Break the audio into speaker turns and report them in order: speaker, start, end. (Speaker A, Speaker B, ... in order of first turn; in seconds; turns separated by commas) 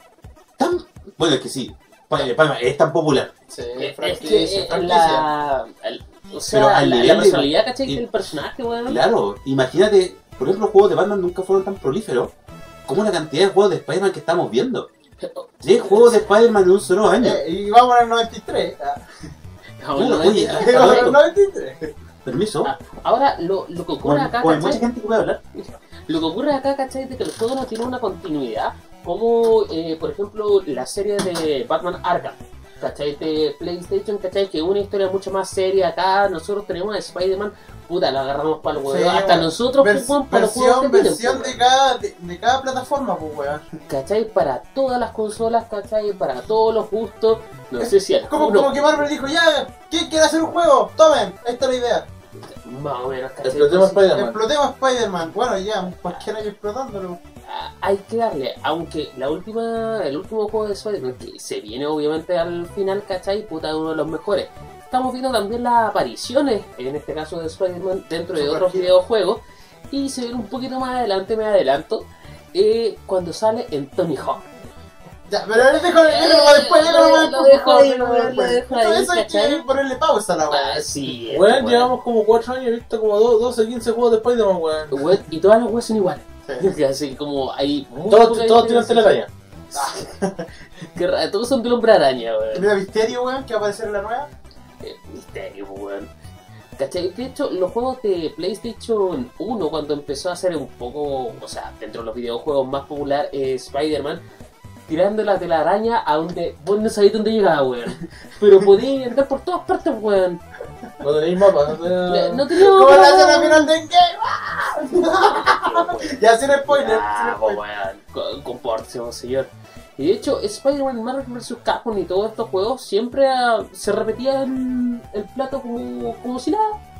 Speaker A: 0.6-3.3, Speaker B: 3.5-5.2, Speaker C: 3.8-9.0, Speaker D: 4.8-5.1, Speaker A: 6.5-8.0, Speaker A: 8.8-12.3, Speaker A: 12.8-14.9, Speaker C: 15.2-16.3, Speaker A: 15.6-17.4, Speaker B: 17.1-19.0, Speaker C: 19.8-21.1, Speaker A: 19.9-21.2, Speaker B: 20.5-21.9, Speaker A: 22.2-22.7, Speaker C: 22.6-24.8, Speaker A: 24.0-25.4, Speaker C: 25.5-41.6, Speaker B: 38.9-43.6, Speaker C: 43.9-49.1, Speaker B: 47.8-52.1, Speaker C: 52.5-54.1, Speaker D: 53.4-54.4, Speaker B: 54.1-57.2, Speaker C: 57.5-74.5, Speaker B: 68.3-68.9, Speaker B: 75.3-80.9, Speaker C: 75.6-79.6, Speaker C: 80.5-81.9, Speaker D: 81.3-85.0, Speaker C: 84.9-89.2, Speaker D: 87.9-89.3, Speaker C: 89.7-90.0, Speaker B: 89.7-90.5, Speaker C: 90.9-92.7, Speaker B: 92.5-94.3, Speaker C: 94.8-96.1, Speaker C: 96.8-104.2, Speaker C: 104.9-110.4, Speaker D: 111.0-112.4, Speaker C: 112.1-113.7, Speaker B: 112.5-117.6, Speaker C: 114.9-126.8